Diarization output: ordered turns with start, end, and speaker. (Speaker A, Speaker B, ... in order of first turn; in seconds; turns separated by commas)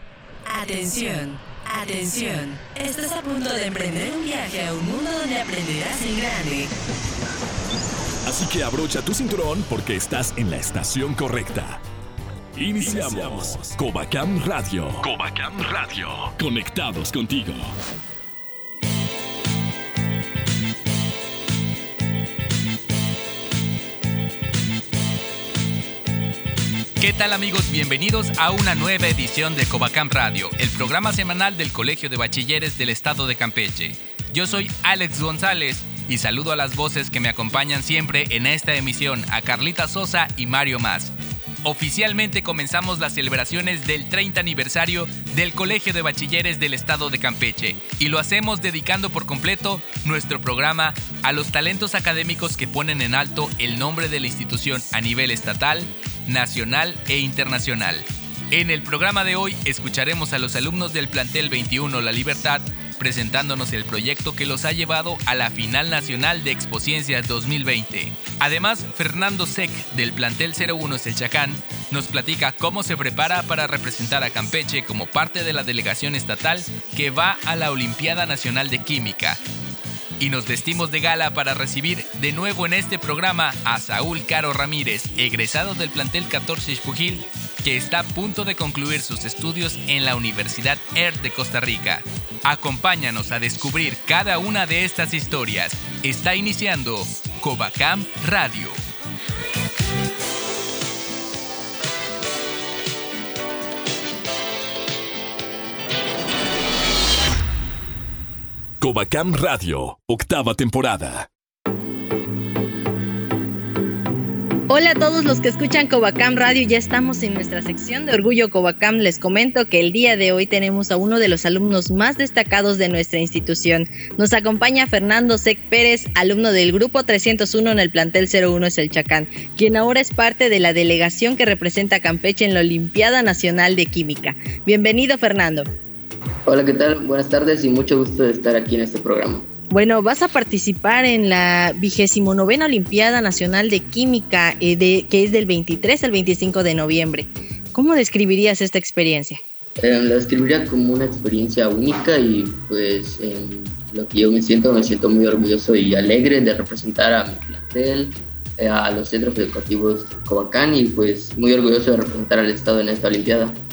Speaker A: 0.5-6.7, Speaker B: 8.3-11.8, Speaker B: 12.6-17.7, Speaker C: 27.0-79.4, Speaker C: 80.2-98.8, Speaker B: 108.8-111.3, Speaker D: 114.7-135.7, Speaker E: 136.5-139.5, Speaker D: 139.7-149.4, Speaker E: 149.8-163.6